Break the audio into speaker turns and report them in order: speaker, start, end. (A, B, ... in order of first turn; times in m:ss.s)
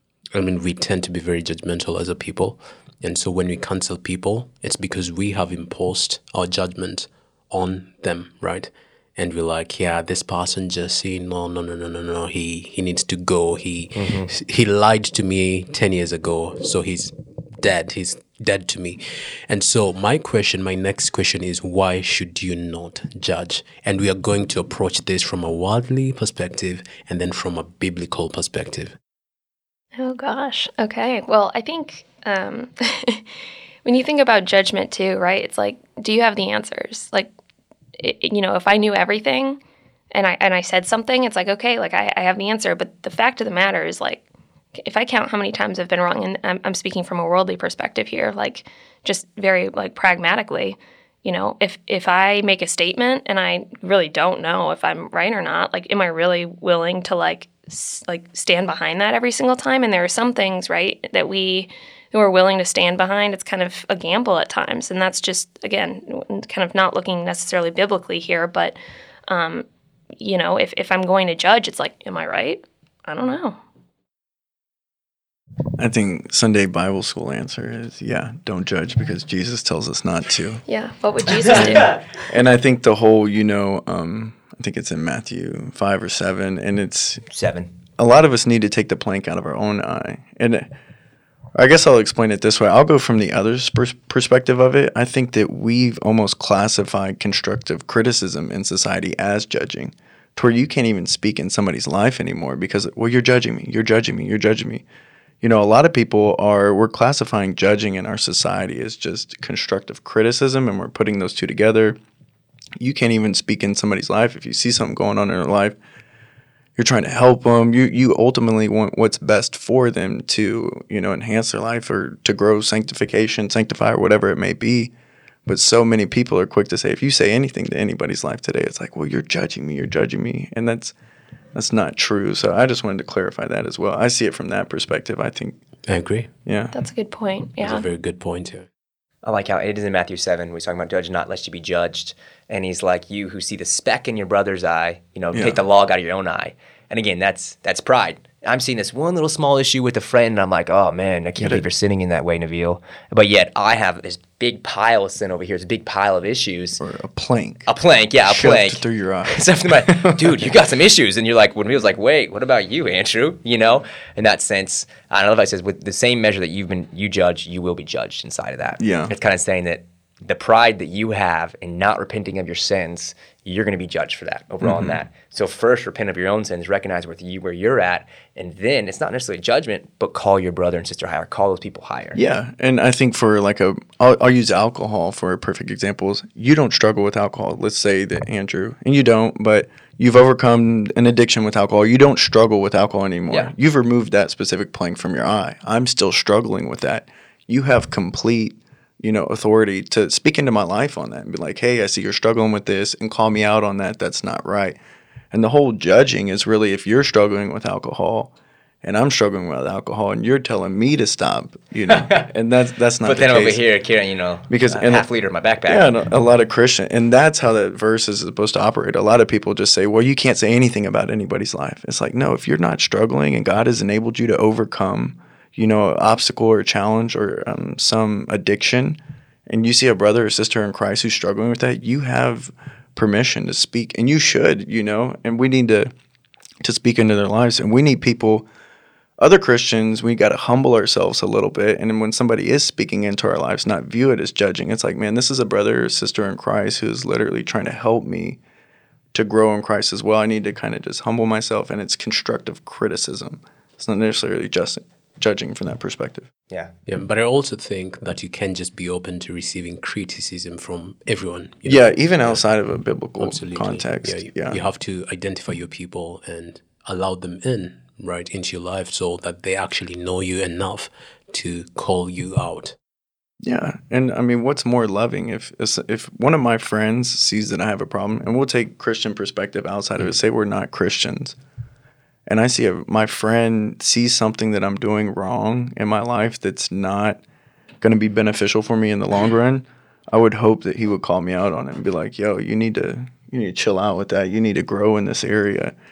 0:00.3-0:29.0 A
0:14.0-0:14.3 B
0:30.0-0:33.3 C
0:33.8-0:37.3 C
0:38.0-0:39.6 C
0:40.1-0:44.2 C
0:44.8-1:09.7 C
1:10.2-1:13.6 C
1:15.8-1:20.6 D
1:20.7-1:22.0 C
1:21.5-1:27.2 D
1:21.6-1:22.0 B
1:27.3-1:27.7 B
1:28.0-1:30.7 D
1:31.6-1:44.8 D
1:45.4-1:52.0 D
1:52.8-1:55.8 D
1:56.8-2:04.9 D
2:05.5-2:10.9 D
2:11.5-2:15.6 D
2:15.9-2:16.3 A
2:16.5-2:16.7 D
2:16.7-2:17.9 C
2:17.6-2:18.7 A
2:19.2-2:36.8 B
2:25.3-2:25.6 D
2:31.4-2:31.6 D
2:36.8-2:37.7 D
2:37.7-3:02.2 B
2:38.2-2:40.4 D
2:48.8-2:49.1 D
2:54.6-2:55.0 D
3:02.2-3:24.8 D
3:25.3-3:28.3 D
3:28.8-3:33.6 D
3:31.9-3:32.3 B
3:33.0-3:36.0 B
3:34.5-3:35.1 D
3:35.7-3:55.9 D
3:56.6-3:58.5 D
3:59.2-4:08.4 D
4:09.1-4:16.3 D
4:16.9-4:22.4 A
4:21.6-4:24.6 D
4:23.2-4:32.8 A
4:33.4-4:41.4 D
4:42.3-4:47.2 D
4:47.8-4:55.7 D